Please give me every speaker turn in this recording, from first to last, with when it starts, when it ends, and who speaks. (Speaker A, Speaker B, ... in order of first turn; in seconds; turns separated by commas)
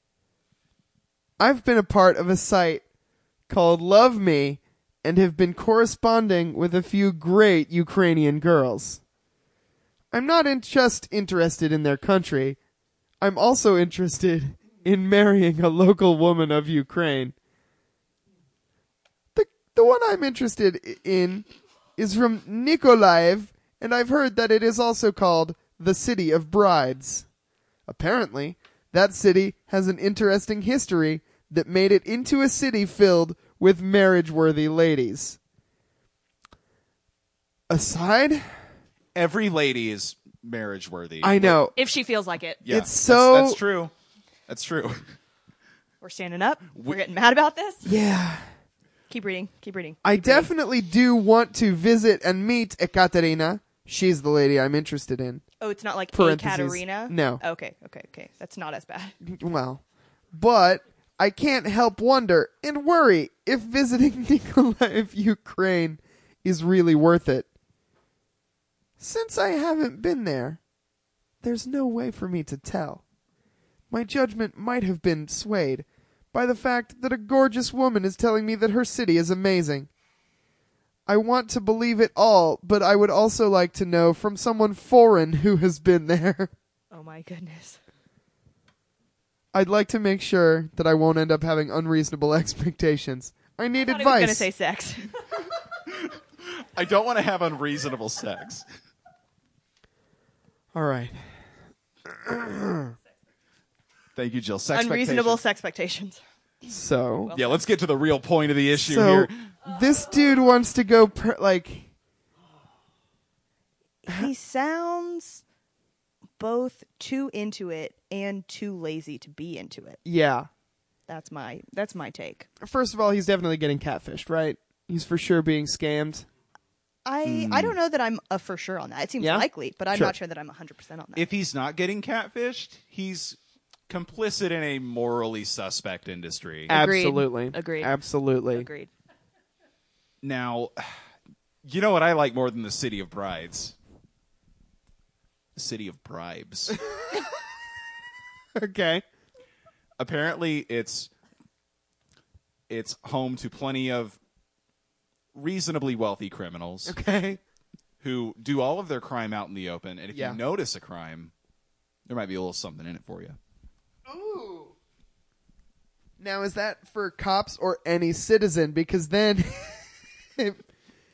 Speaker A: 1.4-2.8, Speaker A: 3.5-9.0, Speaker A: 10.1-12.6, Speaker A: 13.2-17.3, Speaker A: 19.3-21.4, Speaker A: 22.0-27.2, Speaker A: 27.9-35.4, Speaker A: 37.7-38.5, Speaker B: 39.1-41.7, Speaker A: 41.2-41.7, Speaker C: 41.7-42.6, Speaker B: 42.6-43.9, Speaker A: 42.6-43.6, Speaker B: 44.5-45.1, Speaker C: 46.0-47.9, Speaker A: 47.8-48.5, Speaker C: 49.1-50.5, Speaker A: 50.0-55.4, Speaker C: 55.6-59.2, Speaker A: 56.1-57.4, Speaker A: 59.2-67.5, Speaker A: 69.0-70.6, Speaker A: 71.4-73.0, Speaker A: 73.9-79.9, Speaker A: 81.1-86.5, Speaker C: 86.9-87.8, Speaker A: 89.5-94.5, Speaker C: 93.8-95.1, Speaker B: 95.9-98.6, Speaker A: 100.7-101.3, Speaker A: 102.0-102.9, Speaker B: 104.2-105.4, Speaker C: 104.7-106.2, Speaker A: 106.6-107.3, Speaker C: 107.2-107.7, Speaker B: 107.3-109.5, Speaker A: 108.7-111.9, Speaker C: 114.0-115.4, Speaker C: 116.4-120.0, Speaker A: 120.0-120.5, Speaker C: 121.1-122.5, Speaker A: 122.6-126.3, Speaker C: 127.0-131.3, Speaker B: 127.2-127.7, Speaker A: 129.2-130.1, Speaker B: 131.1-133.4, Speaker B: 133.9-136.7, Speaker A: 136.7-138.7, Speaker C: 136.7-137.9, Speaker C: 138.5-138.9, Speaker B: 140.2-141.0, Speaker B: 141.6-143.7, Speaker B: 145.6-146.8, Speaker A: 148.5-149.0, Speaker B: 150.0-151.1, Speaker B: 152.7-154.2, Speaker B: 155.3-156.9, Speaker A: 156.8-157.4, Speaker B: 158.0-161.3, Speaker A: 160.1-160.4, Speaker B: 162.1-163.4, Speaker A: 164.1-164.7, Speaker A: 166.2-170.6